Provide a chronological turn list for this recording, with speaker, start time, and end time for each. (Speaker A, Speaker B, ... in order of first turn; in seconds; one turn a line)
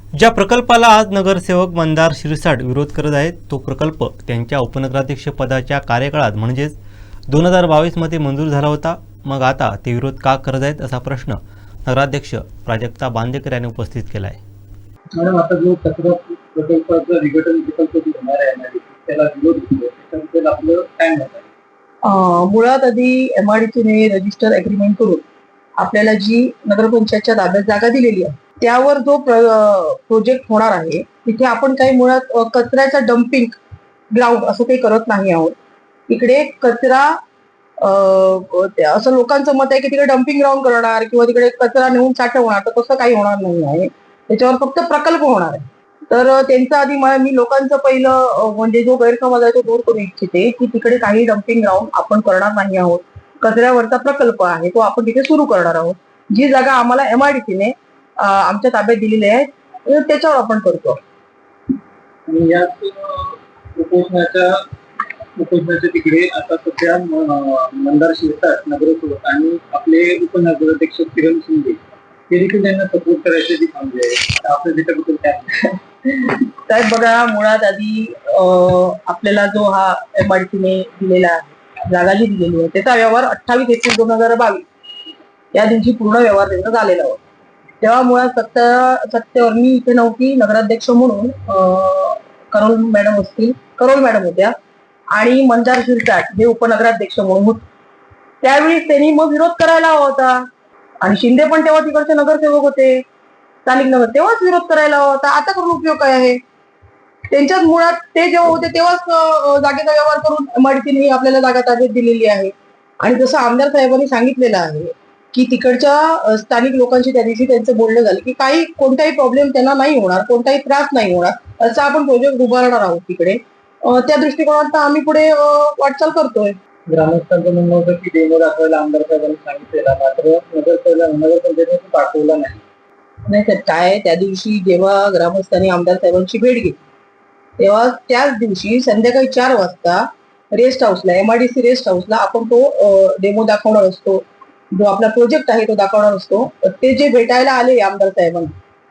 Speaker A: 0.1-6.8
Speaker A: 7.3-14.4
Speaker B: 15.1-21.5
Speaker C: 22.0-25.2
Speaker C: 25.8-33.6
Speaker C: 34.1-35.5
Speaker C: 36.1-37.1
Speaker C: 37.8-61.0
Speaker B: 62.3-64.6
Speaker B: 65.3-75.7
Speaker C: 76.2-84.6
Speaker C: 85.5-87.2
Speaker C: 87.8-94.5
Speaker C: 95.1-97.6
Speaker C: 98.4-100.4
Speaker C: 101.0-103.0
Speaker C: 103.7-106.4
Speaker C: 107.3-126.5
Speaker B: 126.9-132.6
Speaker C: 133.3-136.8
Speaker C: 137.6-148.5